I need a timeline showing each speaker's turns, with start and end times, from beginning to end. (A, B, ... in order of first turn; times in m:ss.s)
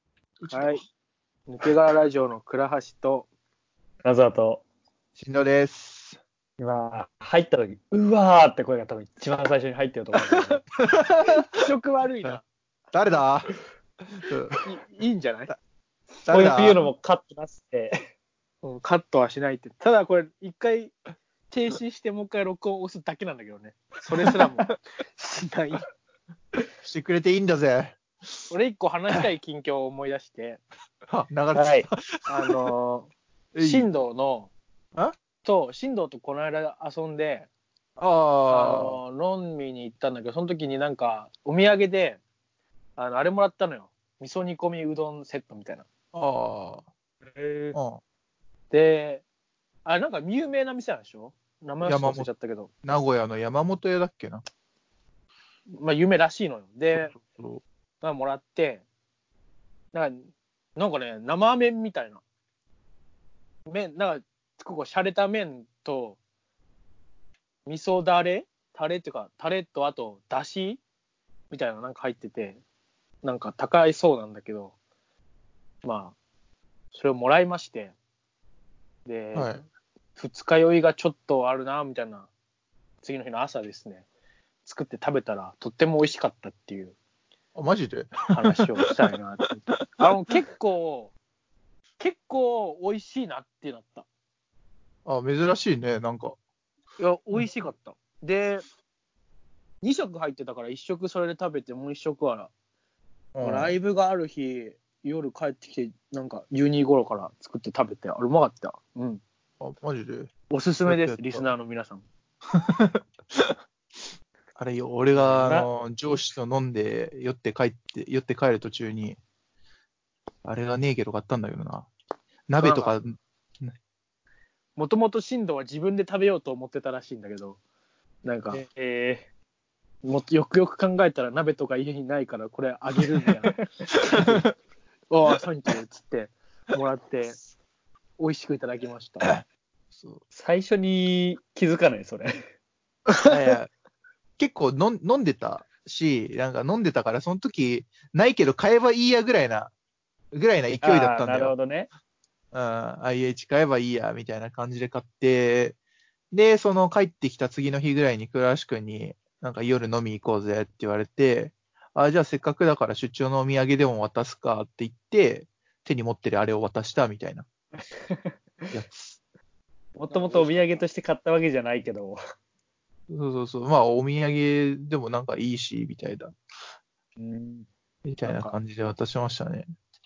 0:00.4-0:00.8 A
0:00.5-0:00.8 B
0:01.5-0:03.3 B
0:04.0-0:04.6 C
0:05.2-0:06.2 A
0:06.6-0:10.6 C
0:10.8-0:11.5 A
0:11.5-0:12.4 B
0:12.9-0:13.5 A
0:14.1-0:14.6 A
0:14.6-0:15.5 B
0:16.2-0:16.9 A
0:16.3-0:18.0 C
0:18.6-0:20.9 B
0:21.5-0:25.8 B
0:26.8-0:28.4 A
0:28.5-0:30.6 B
0:31.1-0:32.6 A
0:31.5-0:31.9 C
0:32.3-0:34.5 B
0:33.6-0:33.8 A
0:35.4-0:37.5 B
0:38.0-0:39.0 A
0:38.5-0:42.2 B
0:43.0-0:45.9 B
0:46.1-0:46.8 A
0:47.2-0:47.8 C
0:47.7-0:48.0 A
0:48.7-0:49.2 B
0:49.8-0:52.7 B
0:51.8-0:52.3 A
0:52.8-0:54.4 A
0:55.7-0:57.1 B
0:56.9-0:57.6 A
0:58.0-0:58.8 B
0:59.9-1:02.2 B
1:03.7-1:06.2 B
1:07.6-1:10.8 B
1:11.5-1:12.6 B
1:13.2-1:14.7 B
1:15.8-1:16.1 B
1:16.9-1:17.9 B
1:19.0-1:19.6 B
1:19.3-1:19.6 A
1:20.2-1:22.3 B
1:23.0-1:24.0 B
1:24.6-1:27.0 B
1:27.6-1:28.6 A
1:28.3-1:31.1 B
1:32.0-1:34.0 B
1:35.0-1:36.4 A
1:37.0-1:38.6 B
1:39.8-1:42.5 B
1:43.3-1:43.7 A
1:43.4-1:49.2 B
1:49.6-1:51.5 A
1:50.5-1:52.0 B
1:52.5-1:53.5 A
1:54.6-1:59.2 A
1:55.4-1:55.7 C
2:00.4-2:01.9 A
2:02.5-2:03.7 A
2:02.6-2:03.0 B
2:04.8-2:07.6 B
2:08.2-2:08.6 B
2:08.5-2:09.2 C
2:10.0-2:14.4 B
2:14.1-2:14.5 A
2:15.1-2:17.4 B
2:18.2-2:19.3 B
2:19.9-2:20.2 A
2:20.3-2:22.3 C
2:23.2-2:23.7 A
2:24.4-2:29.7 A
2:30.3-2:31.5 A
2:30.8-2:31.9 C
2:32.5-2:35.8 A
2:36.3-2:47.4 A
2:48.7-2:49.2 A
2:50.0-2:52.2 C
2:50.1-2:50.8 B
2:53.1-2:56.3 A
2:57.2-2:57.7 C
2:58.0-2:59.6 A
2:58.2-2:58.6 B